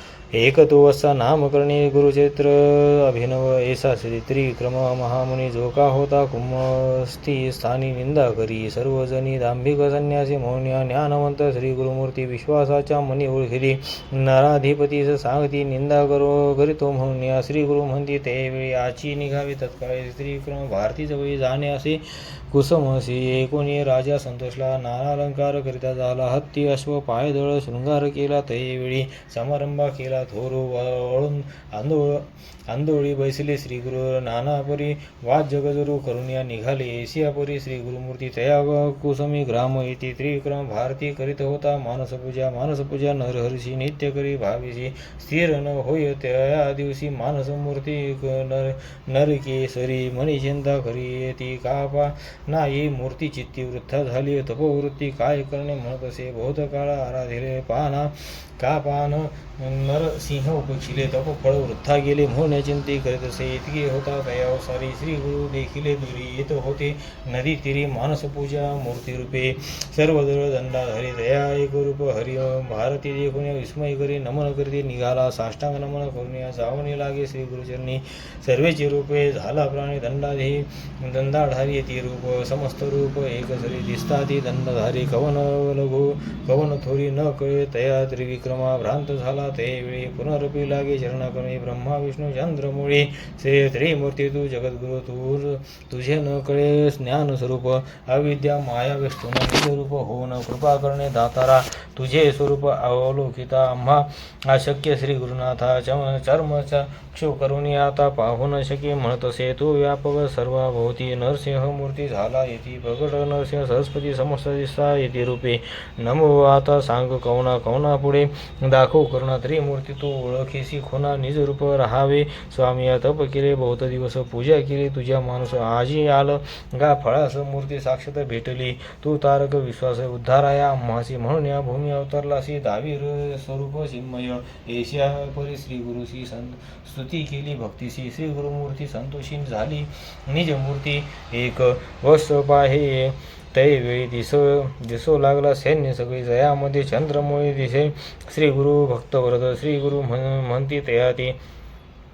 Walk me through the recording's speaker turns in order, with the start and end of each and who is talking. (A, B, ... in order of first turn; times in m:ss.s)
0:00.4-2:31.4 A